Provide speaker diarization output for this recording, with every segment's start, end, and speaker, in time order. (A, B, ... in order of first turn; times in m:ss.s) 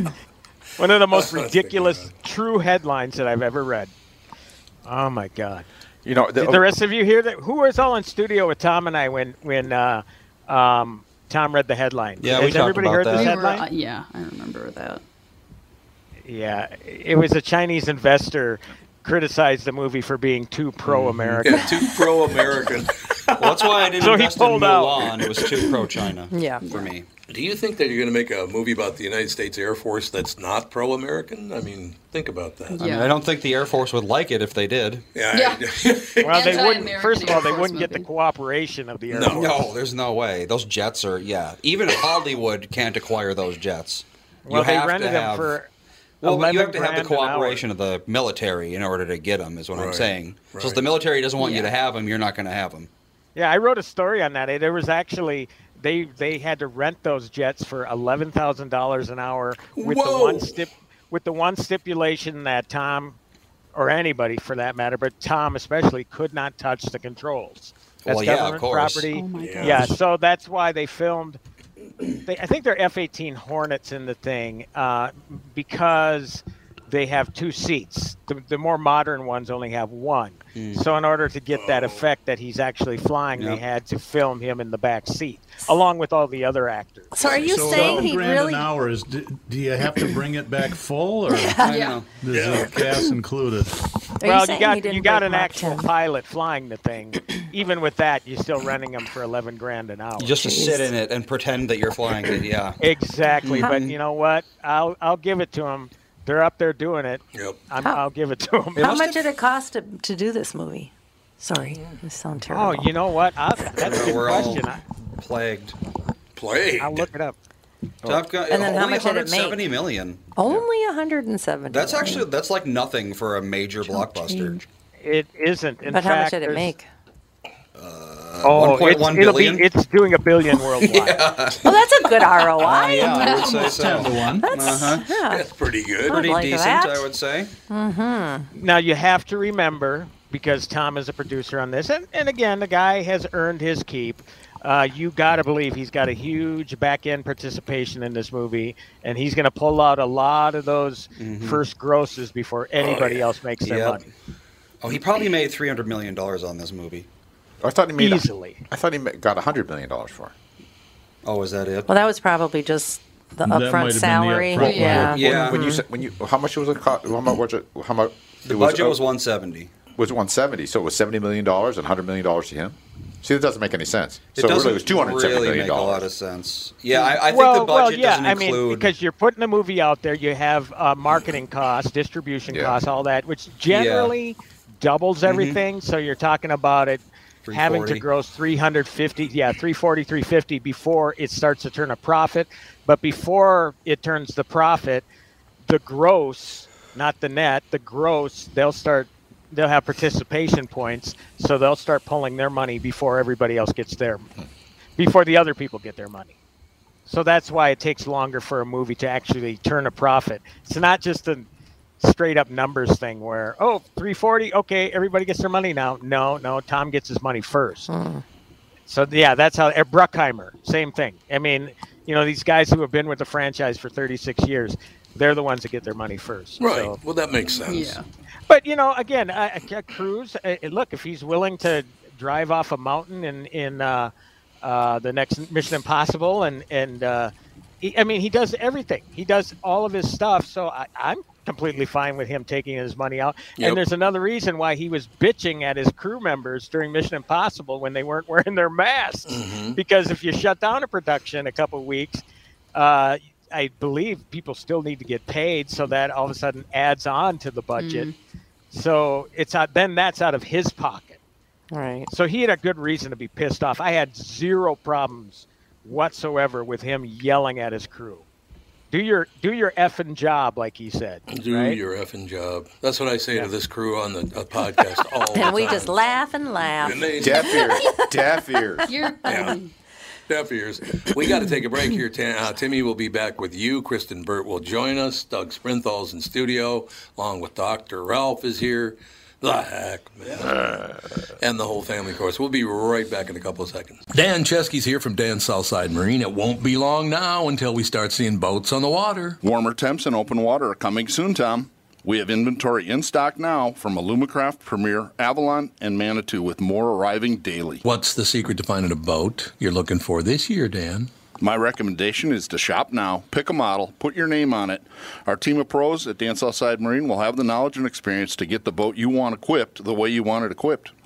0:00.8-0:03.9 A
0:01.1-0:02.1 B
0:04.8-0:05.6 A
0:06.0-0:06.6 C
0:06.4-0:13.6 A
0:12.2-0:13.4 D
0:13.1-0:15.0 E
0:16.2-0:21.7 A
0:20.8-0:21.6 D
0:21.4-0:22.9 B
0:23.4-0:27.1 D
0:24.0-0:25.4 A
0:26.3-0:26.7 F
0:27.3-0:32.8 B
0:32.7-0:33.1 E
0:32.8-0:35.0 D
0:35.1-0:36.7 B
0:35.3-0:35.6 E
0:36.2-0:39.6 A
0:36.2-0:38.1 E
0:39.1-0:39.5 B
0:39.3-0:45.5 D
0:44.4-0:45.7 A
0:46.2-0:47.6 A
0:46.2-0:52.9 D
0:49.7-0:50.8 B
0:51.4-0:51.7 E
0:53.3-1:03.2 A
0:59.7-1:00.6 B
1:03.7-1:11.4 A
1:08.0-1:09.1 D
1:09.1-1:09.9 E
1:09.4-1:09.9 B
1:12.2-1:27.1 A
1:20.6-1:20.8 D
1:21.5-1:22.0 B
1:23.4-1:23.6 D
1:27.1-1:28.7 F
1:27.2-1:33.8 G
1:31.3-1:31.6 F
1:31.6-1:32.6 D
1:31.6-1:32.0 E
1:32.3-1:32.7 B
1:34.2-1:35.9 F
1:34.2-1:40.5 A
1:40.2-1:42.8 D
1:40.5-1:40.8 F
1:42.8-1:49.1 A
1:43.4-1:44.0 D
1:47.3-1:47.6 B
1:48.8-1:52.9 F
1:52.5-1:54.8 A
1:53.8-1:55.7 D
1:56.4-1:57.1 B
1:56.8-1:57.4 A
1:58.0-2:00.6 D
1:58.5-1:59.7 F
2:00.3-2:02.3 F
2:01.7-2:04.6 D
2:03.9-2:04.5 E
2:03.9-2:04.5 F
2:05.0-2:06.7 A
2:05.9-2:06.8 F
2:07.8-2:09.7 D
2:08.4-2:11.3 A
2:10.6-2:15.1 D
2:11.6-2:13.7 F
2:13.0-2:14.5 G
2:14.4-2:15.5 F
2:15.3-2:16.3 B
2:16.1-2:17.1 F
2:16.1-2:17.5 D
2:17.7-2:18.5 F
2:18.5-2:34.0 A
2:31.2-2:31.6 D
2:32.8-2:33.2 B
2:33.6-2:34.0 D
2:34.8-2:37.1 D
2:37.6-2:40.3 C
2:38.0-2:38.6 A
2:41.2-2:41.9 D
2:41.9-2:45.8 F
2:43.4-2:45.2 G
2:44.6-2:45.0 E
2:45.0-2:45.6 D
2:45.2-2:49.0 C
2:48.4-2:49.7 D
2:49.9-2:56.1 C
2:54.3-2:58.9 D
2:57.1-3:15.0 A
3:02.5-3:02.8 C
3:03.7-3:04.1 D
3:05.2-3:05.6 D
3:07.4-3:08.0 D
3:15.6-3:24.3 A
3:25.0-3:26.4 A
3:27.1-3:31.5 A
3:32.0-3:37.9 A
3:37.9-3:38.2 F
3:38.9-3:47.0 A
3:46.6-3:48.0 B
3:47.6-3:48.0 E
3:48.5-3:54.1 A
3:54.6-4:12.2 A
4:09.3-4:09.8 B
4:12.7-4:18.1 A
4:17.8-4:18.1 E
4:18.7-4:21.2 A
4:21.7-4:22.1 F
4:22.1-4:28.2 A
4:28.9-4:31.8 A
4:31.3-4:35.9 B
4:35.3-4:38.0 F
4:36.8-4:37.6 B
4:37.2-4:38.9 C
4:38.8-4:39.7 E
4:39.2-4:39.6 B
4:40.3-4:59.4 B
4:59.4-5:07.8 H
5:07.8-5:11.1 B
5:11.4-5:20.9 H